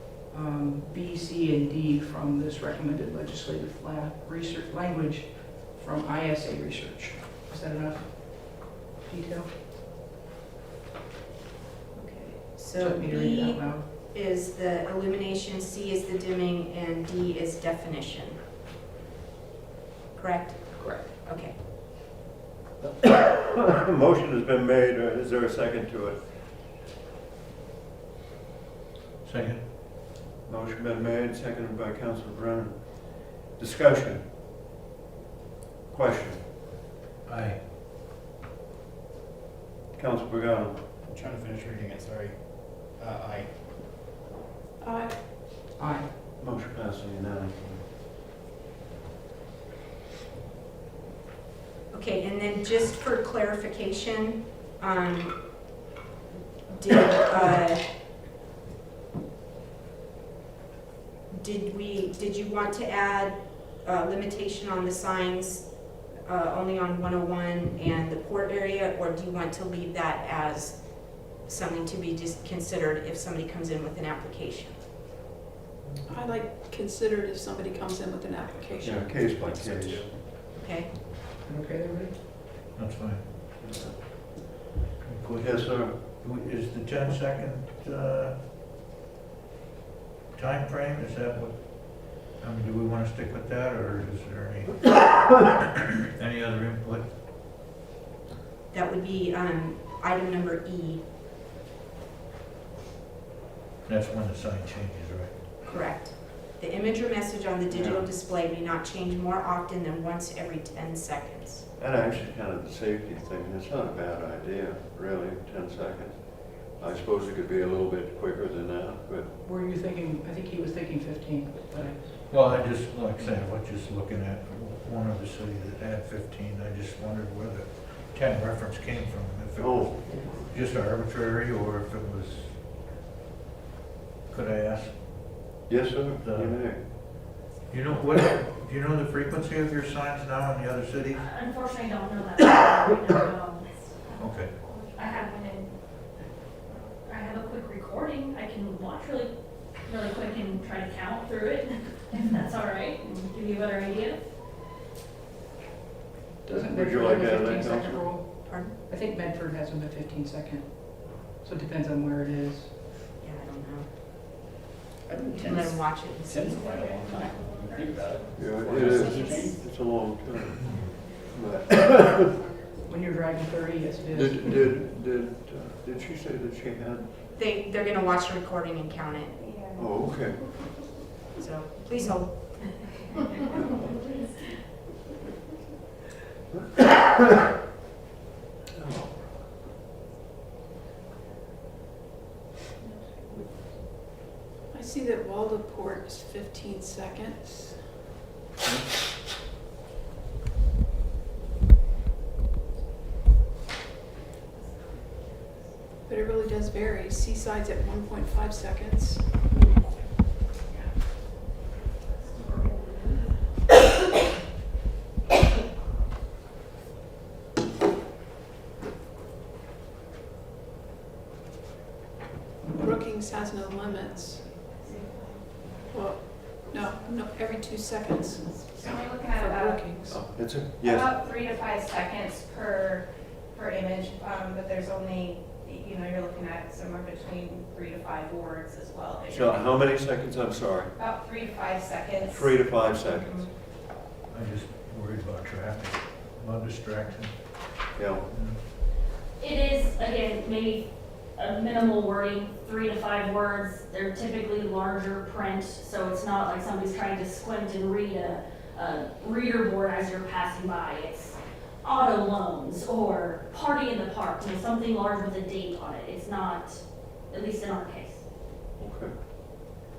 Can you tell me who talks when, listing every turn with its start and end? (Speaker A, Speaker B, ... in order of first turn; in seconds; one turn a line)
Speaker A: 0.3-9.5
Speaker B: 11.9-18.4
Speaker A: 12.7-13.9
Speaker B: 20.1-21.6
Speaker A: 20.7-21.1
Speaker C: 22.8-26.3
Speaker D: 29.2-29.6
Speaker C: 30.4-34.2
Speaker C: 35.9-36.4
Speaker D: 37.2-37.6
Speaker C: 39.9-40.7
Speaker E: 41.0-43.6
Speaker F: 44.8-45.2
Speaker A: 45.8-46.1
Speaker C: 46.4-47.8
Speaker B: 51.9-55.8
Speaker B: 56.7-57.9
Speaker B: 61.3-74.8
Speaker F: 76.1-79.7
Speaker C: 78.8-80.1
Speaker E: 79.6-80.1
Speaker B: 80.3-81.0
Speaker A: 81.4-82.1
Speaker D: 82.7-83.3
Speaker C: 83.6-83.9
Speaker D: 85.0-88.4
Speaker C: 85.4-85.9
Speaker D: 90.3-95.6
Speaker D: 96.1-97.0
Speaker B: 98.7-101.0
Speaker D: 103.8-105.3
Speaker B: 105.6-111.7
Speaker C: 107.7-108.1
Speaker C: 111.8-119.3
Speaker A: 119.4-122.2
Speaker D: 122.3-132.6
Speaker C: 129.6-130.5
Speaker E: 130.1-130.3
Speaker D: 134.3-135.6
Speaker C: 135.7-136.8
Speaker D: 136.2-137.0
Speaker D: 137.7-141.2
Speaker G: 141.1-143.9
Speaker D: 144.2-144.6
Speaker G: 144.9-145.7
Speaker G: 147.0-154.2
Speaker A: 156.4-162.7
Speaker C: 156.6-158.1
Speaker B: 158.4-158.8
Speaker B: 163.2-163.9
Speaker E: 165.1-169.5
Speaker B: 165.4-166.9
Speaker G: 166.4-169.6
Speaker C: 168.3-172.3
Speaker B: 168.7-169.6
Speaker A: 172.8-174.6
Speaker C: 174.1-177.1
Speaker B: 177.3-179.5
Speaker C: 179.7-180.6
Speaker B: 181.4-182.6
Speaker C: 186.8-187.4
Speaker C: 188.8-189.3
Speaker F: 194.7-197.8
Speaker F: 206.1-209.4
Speaker H: 212.3-213.1
Speaker F: 222.8-225.1
Speaker H: 224.1-225.4
Speaker F: 225.9-230.3
Speaker A: 228.8-230.0
Speaker H: 229.2-229.8
Speaker C: 230.1-231.1
Speaker H: 230.9-233.0
Speaker H: 233.5-236.9
Speaker H: 237.4-238.2
Speaker C: 239.3-240.9
Speaker H: 241.0-242.2
Speaker C: 242.2-243.5
Speaker B: 243.1-243.5
Speaker D: 244.3-248.6
Speaker C: 247.9-248.2
Speaker G: 249.4-268.2
Speaker C: 268.8-269.1